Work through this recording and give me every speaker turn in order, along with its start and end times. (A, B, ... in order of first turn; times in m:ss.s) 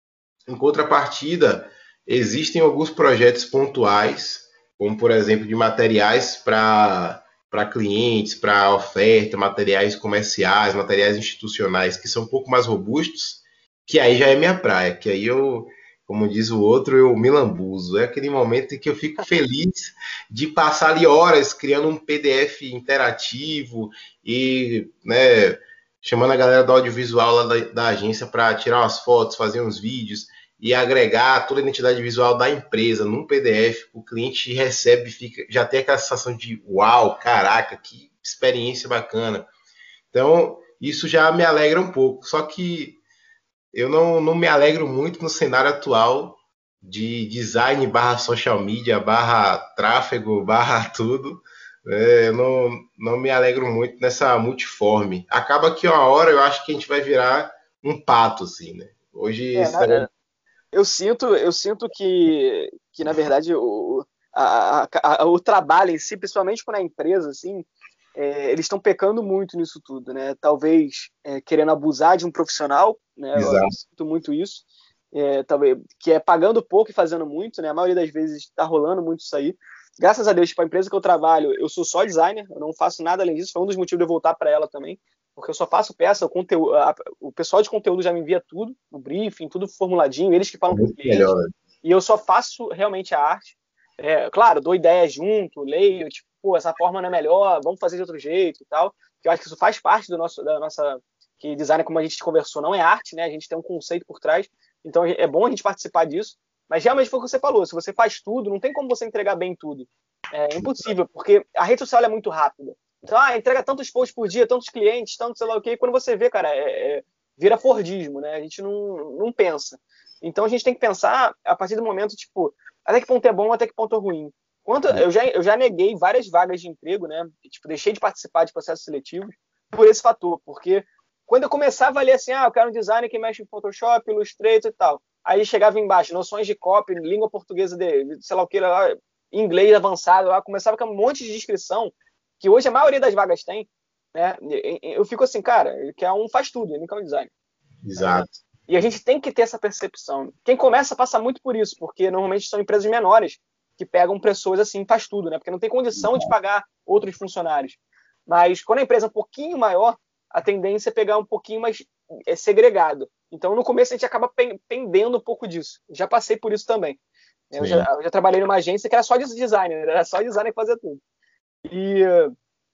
0:00.5-0:39.5 A
0:40.1-0:43.0 A
0:43.7-1:00.1 A
0:59.6-1:00.1 B
1:00.7-2:27.3 B
1:13.4-1:13.8 A
1:30.7-1:31.5 A
1:50.6-1:50.9 A
2:27.8-2:28.3 A
2:28.0-2:47.0 B
2:36.0-2:36.3 A
2:47.5-2:51.0 B
2:47.6-2:47.9 A
2:51.7-2:52.3 B